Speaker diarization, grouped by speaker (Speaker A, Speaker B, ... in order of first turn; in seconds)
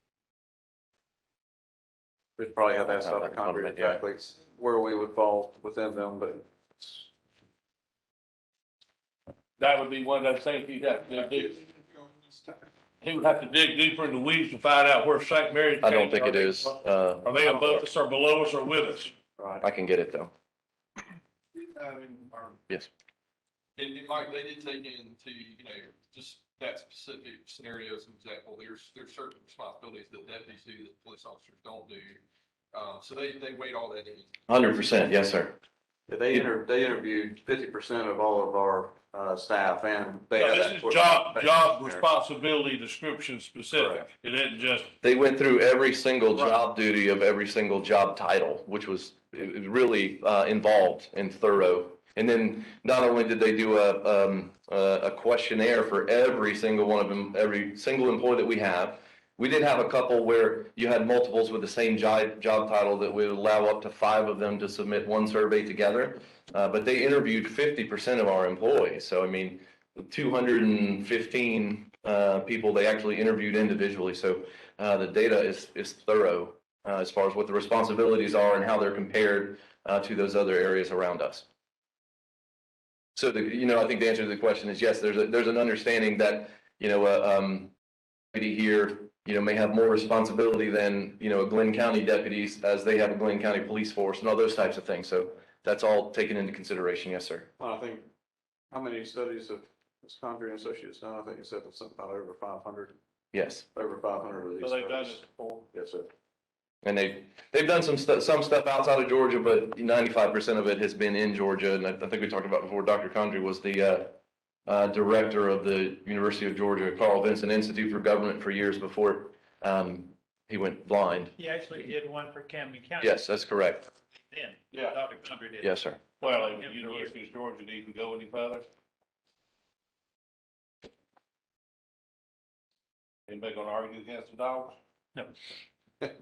Speaker A: 2.4-7.0, 19.4-19.6, 36.1-42.0, 43.7-44.0, 97.6-98.1, 98.7-103.0, 103.7-105.2, 105.7-106.1
Speaker B: 2.8-4.0, 15.8-17.9, 19.6-20.3, 34.5-35.6, 45.0-81.5, 83.2-87.7, 88.3-97.5, 103.3-103.7, 106.8-114.2, 114.7-121.3, 123.0-123.8, 125.6-126.0
Speaker C: 9.6-11.7, 13.0-19.1, 40.4-44.9, 46.3-46.6, 104.6-105.7, 126.2-128.7, 133.3-134.8
Speaker D: 23.8-32.2, 32.7-34.3
Speaker E: 121.4-123.2, 124.1-127.1